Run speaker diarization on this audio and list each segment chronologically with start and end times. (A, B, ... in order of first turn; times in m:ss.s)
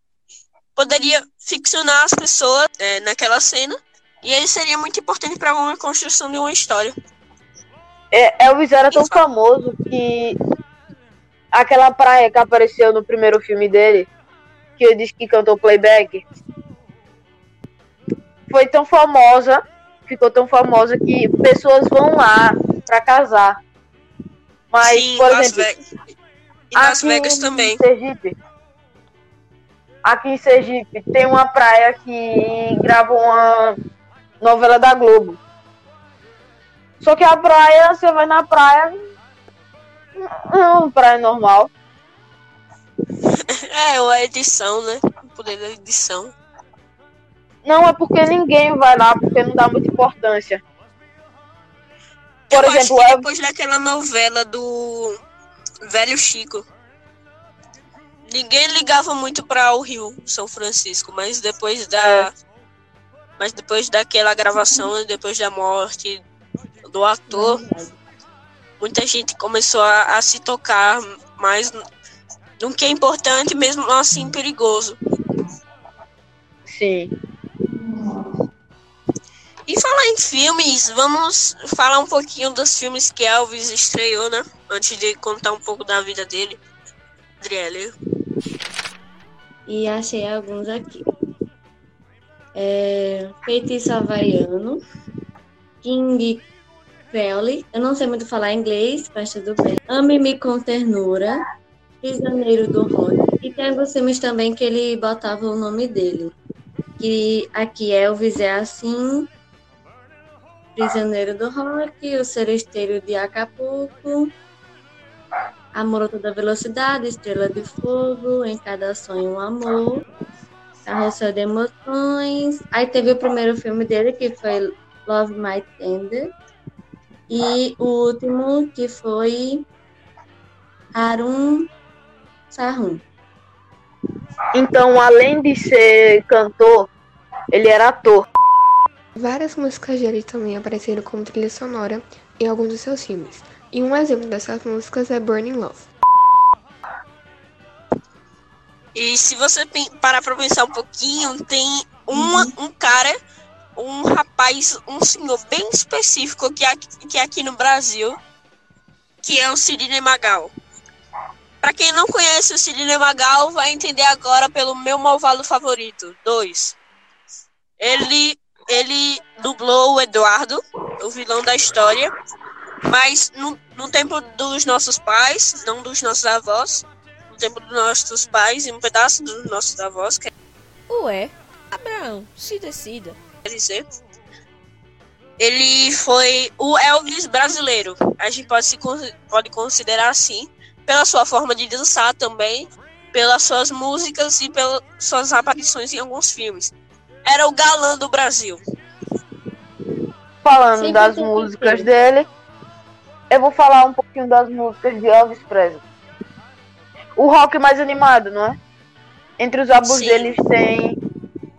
0:00.8-0:07.0 A
0:08.1-0:10.4 B
0:08.9-0:09.2 A
0:11.5-0:14.1 B
0:14.8-0:16.2 B
0:18.5-0:23.6 B
0:24.7-0:25.7 B
0:24.8-0:25.8 A
0:26.7-0:27.8 A
0:26.8-0:28.4 B
0:30.0-0:33.8 B
0:34.4-0:35.4 B
0:37.0-0:39.0 B
0:40.2-0:41.7 B
0:43.5-0:46.3 A
0:47.6-0:50.6 B
0:52.5-0:55.2 A
0:52.5-0:53.2 B
0:55.8-0:56.7 A
0:58.3-1:02.3 A
1:02.0-1:02.3 B
1:03.4-1:06.2 A
1:06.9-1:07.6 A
1:07.3-1:08.0 C
1:08.8-1:11.8 A
1:12.6-1:15.0 A
1:16.7-1:17.1 B
1:19.7-1:26.6 A
1:27.4-1:27.9 A
1:29.7-1:31.0 C
1:32.6-1:34.8 C
1:35.8-1:36.5 C
1:37.1-1:41.4 C
1:42.0-1:46.4 C
1:47.0-1:49.3 C
1:50.8-1:54.3 C
1:55.8-2:00.1 C
2:00.8-2:06.3 C
2:07.3-2:09.7 C
2:10.9-2:11.7 C
2:12.5-2:13.0 C
2:14.5-2:16.9 B
2:17.5-2:18.3 B
2:19.2-2:25.9 D
2:29.0-2:33.2 A
2:33.8-2:38.2 A
2:39.2-2:40.5 A
2:41.6-2:46.8 A
2:47.8-2:52.1 A
2:52.9-3:00.3 A
3:00.9-3:03.2 E
3:03.4-3:03.8 A
3:05.4-3:16.7 A
3:17.2-3:18.6 A
3:20.4-3:22.3 B
3:20.8-3:21.9 C
3:23.3-3:25.8 B
3:27.2-3:28.6 B
3:29.4-3:31.0 B
3:29.7-3:30.4 A